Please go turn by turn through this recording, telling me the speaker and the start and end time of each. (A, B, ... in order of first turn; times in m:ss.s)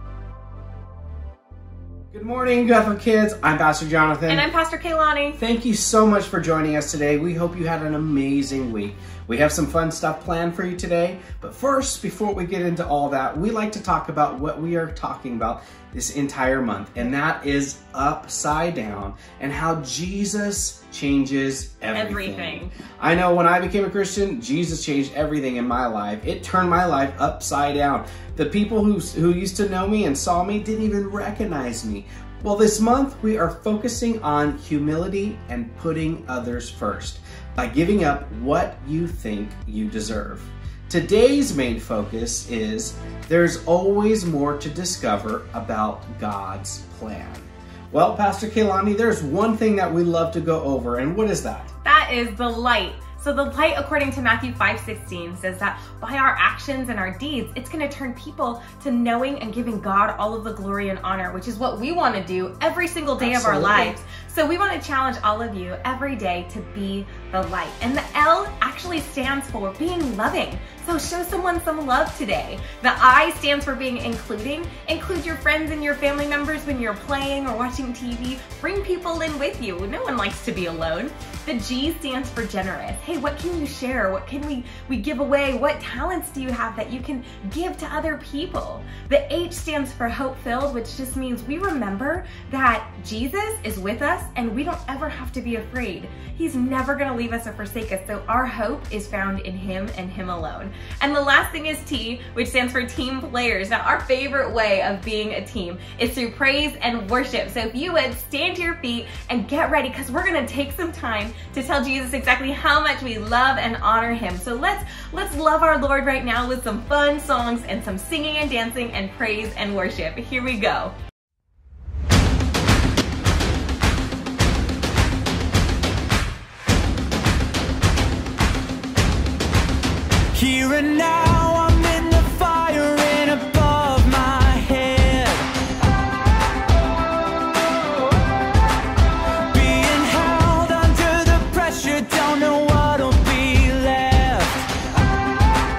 0:02.1-0:04.4 A
0:04.3-0:05.4 B
0:05.4-0:51.7 A
0:21.9-0:22.7 B
0:51.8-2:00.9 B
1:03.2-1:04.0 A
2:10.3-2:15.5 C
2:19.5-2:24.7 C